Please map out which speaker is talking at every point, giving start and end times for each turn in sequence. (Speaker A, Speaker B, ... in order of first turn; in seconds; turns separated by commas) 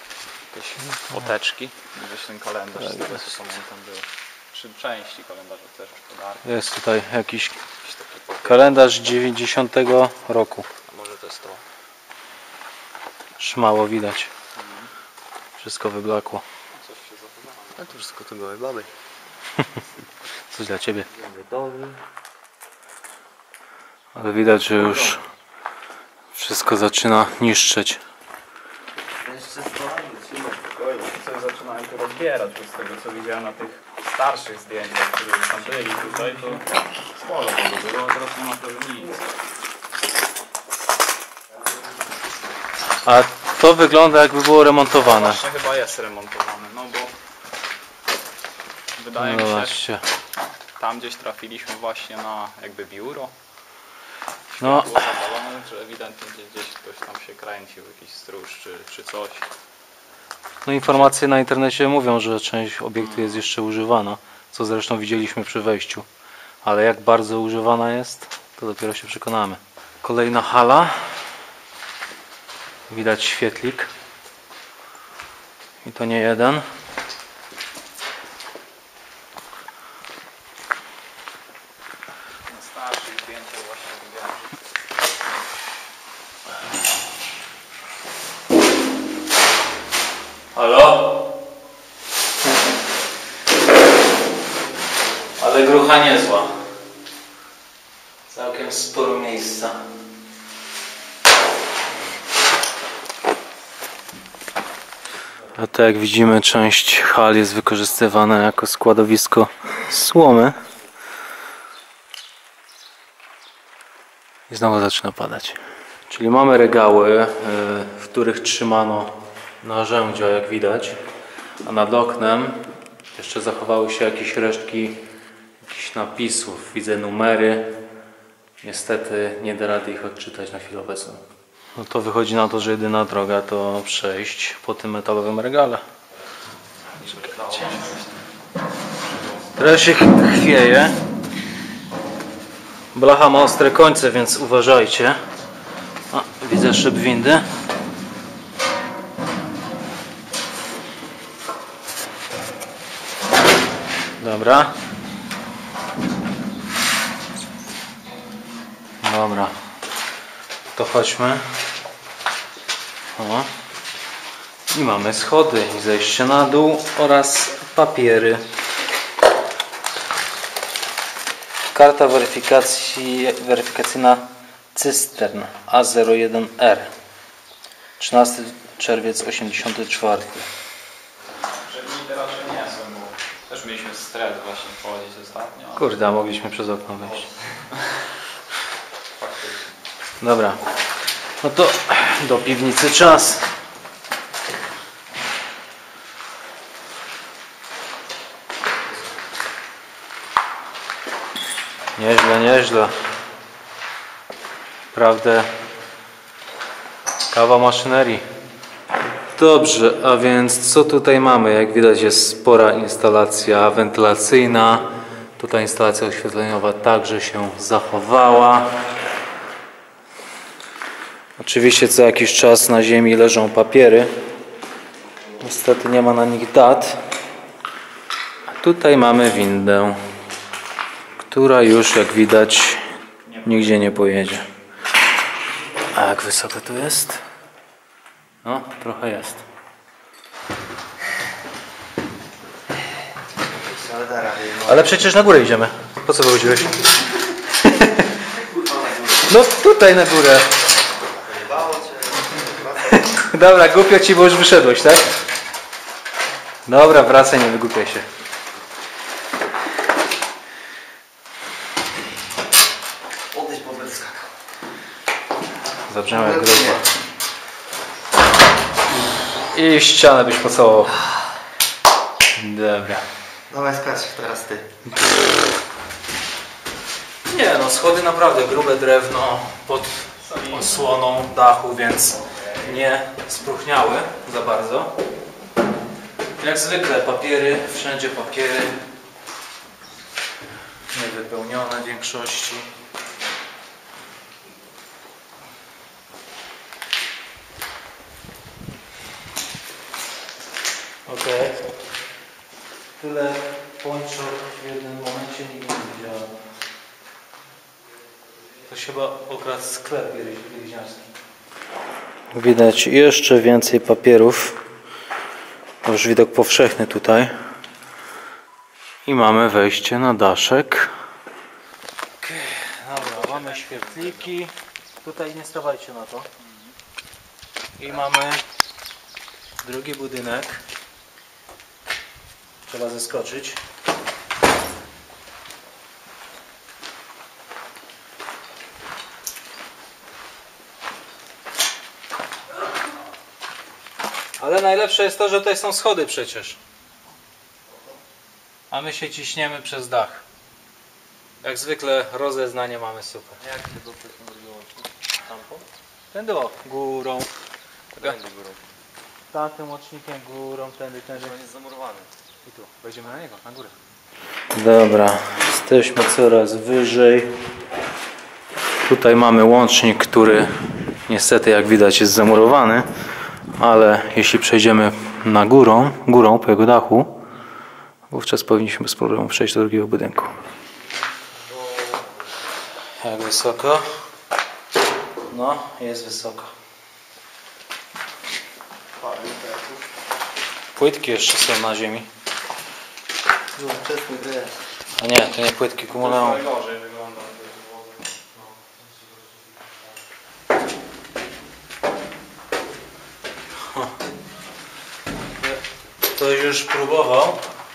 Speaker A: 0.5-6.5, Speaker B: 6.4-7.6, Speaker A: 7.8-8.7, Speaker B: 8.4-10.7, Speaker A: 10.8-11.6, Speaker B: 13.4-14.3, Speaker A: 14.5-14.9, Speaker B: 15.6-16.4, Speaker A: 16.7-17.9, Speaker C: 17.8-18.9, Speaker B: 20.5-21.1, Speaker C: 21.1-22.0, Speaker B: 24.1-25.2, Speaker C: 24.8-25.2, Speaker B: 26.3-28.0, Speaker C: 29.2-30.8, Speaker A: 30.8-39.2, Speaker B: 43.0-45.4, Speaker A: 45.0-47.1, Speaker A: 49.0-49.8, Speaker B: 49.1-50.0, Speaker A: 50.8-53.3, Speaker A: 54.5-59.5, Speaker B: 54.6-55.0, Speaker B: 60.6-66.1, Speaker A: 63.0-63.4, Speaker B: 66.6-71.2, Speaker B: 72.9-73.9, Speaker B: 75.8-76.7, Speaker A: 82.5-84.5, Speaker B: 90.5-91.2, Speaker B: 95.4-96.5, Speaker B: 98.3-99.8, Speaker B: 105.6-110.6, Speaker B: 114.5-115.6, Speaker B: 116.1-121.0, Speaker B: 121.6-125.0, Speaker B: 125.6-127.8, Speaker B: 128.6-131.2, Speaker B: 131.7-135.8, Speaker A: 136.9-138.2, Speaker A: 139.1-139.5, Speaker B: 139.6-141.0, Speaker B: 142.9-145.2, Speaker B: 146.1-147.5, Speaker B: 154.2-154.7, Speaker B: 159.0-159.5, Speaker B: 160.7-161.4, Speaker B: 163.2-163.5, Speaker B: 164.7-168.4, Speaker B: 171.7-176.9, Speaker B: 178.0-180.5, Speaker A: 181.4-186.0, Speaker B: 185.8-187.3, Speaker A: 189.2-189.8, Speaker B: 190.2-190.6, Speaker B: 191.4-193.5, Speaker B: 202.0-203.0, Speaker B: 204.9-205.6, Speaker B: 207.3-208.2, Speaker B: 209.3-218.8, Speaker B: 221.4-224.1, Speaker B: 225.4-227.0, Speaker B: 228.5-230.0, Speaker B: 231.3-232.9, Speaker A: 233.2-233.8, Speaker B: 233.4-234.4, Speaker B: 235.9-237.2, Speaker B: 238.4-239.4, Speaker C: 243.5-245.0, Speaker B: 244.7-246.9, Speaker B: 247.5-248.1, Speaker C: 248.3-249.3, Speaker B: 249.2-250.5, Speaker C: 251.1-253.1, Speaker B: 252.9-255.1, Speaker B: 256.6-258.1, Speaker C: 263.3-264.3, Speaker B: 265.9-266.8, Speaker C: 266.1-266.8, Speaker B: 269.5-271.0, Speaker B: 272.4-273.1, Speaker C: 273.5-274.7, Speaker B: 277.3-284.9, Speaker A: 280.2-280.9, Speaker B: 286.4-288.8, Speaker B: 290.9-292.7, Speaker B: 301.1-301.6, Speaker B: 303.0-306.3, Speaker B: 308.7-311.1, Speaker B: 312.3-314.6, Speaker B: 315.8-317.3, Speaker B: 319.0-320.9, Speaker B: 322.2-326.3, Speaker A: 322.9-324.3, Speaker A: 326.4-326.7, Speaker B: 327.8-328.4, Speaker B: 329.6-330.6, Speaker B: 332.7-333.6, Speaker B: 344.4-346.6, Speaker B: 348.7-350.2, Speaker B: 351.4-353.4, Speaker C: 353.4-355.6, Speaker B: 356.1-357.3, Speaker C: 357.9-358.6, Speaker B: 359.3-361.4, Speaker C: 361.1-362.1, Speaker B: 362.4-363.7, Speaker B: 364.5-367.4, Speaker B: 368.9-372.9, Speaker B: 373.6-377.2, Speaker B: 378.1-380.3, Speaker C: 381.4-382.3, Speaker B: 383.0-383.9, Speaker B: 385.3-386.5, Speaker C: 389.0-389.9, Speaker B: 390.8-392.1, Speaker C: 393.5-394.6, Speaker B: 395.0-396.4, Speaker A: 395.9-398.0, Speaker C: 398.6-399.5, Speaker B: 406.1-407.4